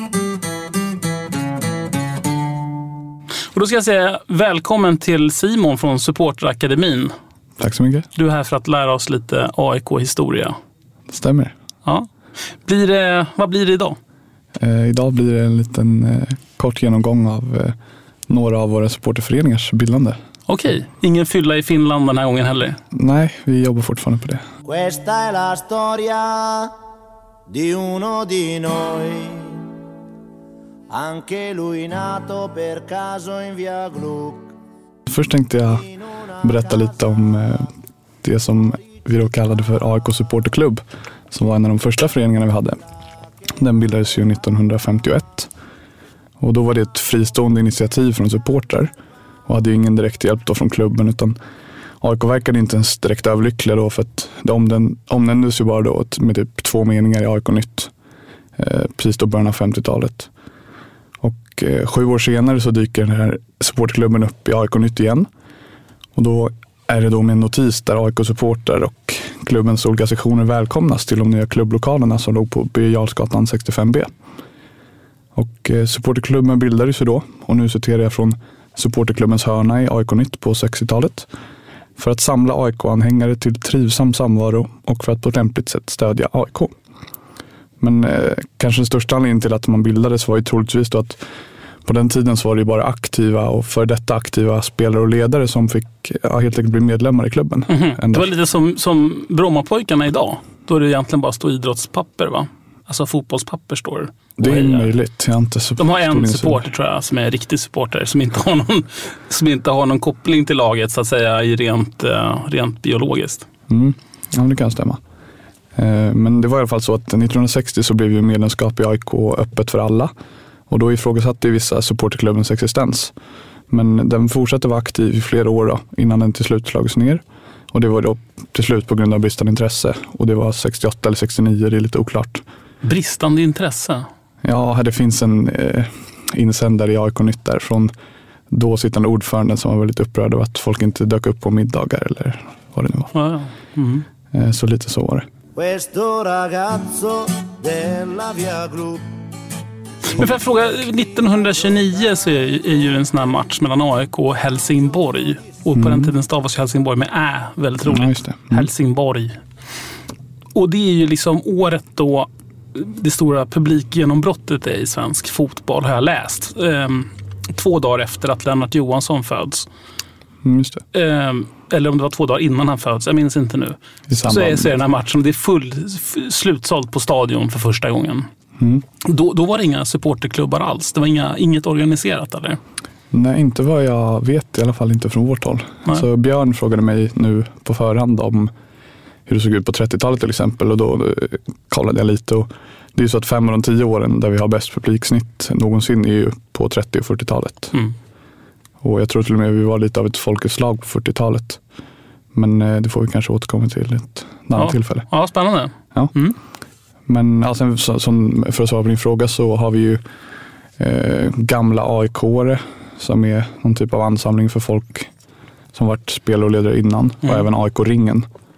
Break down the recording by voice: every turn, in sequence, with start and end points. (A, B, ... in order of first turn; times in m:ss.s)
0:03.5-0:07.1 A
0:07.6-0:08.1 B
0:08.2-0:10.6 A
0:11.1-0:11.5 B
0:12.6-0:14.0 A
0:14.6-0:17.8 B
0:18.3-0:20.2 B
0:20.5-0:22.8 A
0:22.9-0:24.4 B
0:24.6-0:26.7 C
0:27.5-0:29.6 C
0:30.9-0:34.5 C
0:35.1-0:35.8 B
0:36.4-0:37.7 B
0:38.2-0:42.8 B
0:43.6-0:45.5 B
0:46.4-0:48.9 B
0:49.5-0:51.4 B
0:52.0-0:57.9 B
0:58.6-1:00.3 B
1:01.2-1:05.2 B
1:06.1-1:14.1 B
1:15.3-1:21.3 B
1:22.0-1:26.7 B
1:27.8-1:31.2 B
1:31.8-1:38.3 B
1:37.7-1:44.9 A
1:44.4-1:46.6 B
1:45.8-1:53.5 A
1:53.7-1:55.0 B
1:55.8-2:00.1 B
2:00.7-2:03.1 B
2:03.7-2:12.4 B
2:12.8-2:14.0 A
2:14.4-2:17.9 B
2:18.5-2:23.1 B
2:23.1-2:24.0 A
2:24.3-2:25.3 B
2:25.6-2:29.1 C
2:30.1-2:39.4 A
2:35.7-2:36.1 B
2:37.8-2:38.7 B
2:40.5-2:49.7 A
2:50.4-2:50.8 B
2:50.9-2:58.3 A
2:54.1-2:54.8 B
2:58.6-2:58.8 B
2:59.0-3:02.6 A
3:03.1-3:08.5 B
3:09.3-3:17.7 B
3:18.8-3:21.6 B
3:22.3-3:25.1 B
3:24.6-3:26.3 A
3:27.1-3:30.0 B
3:30.8-3:35.1 B
3:35.7-3:38.2 B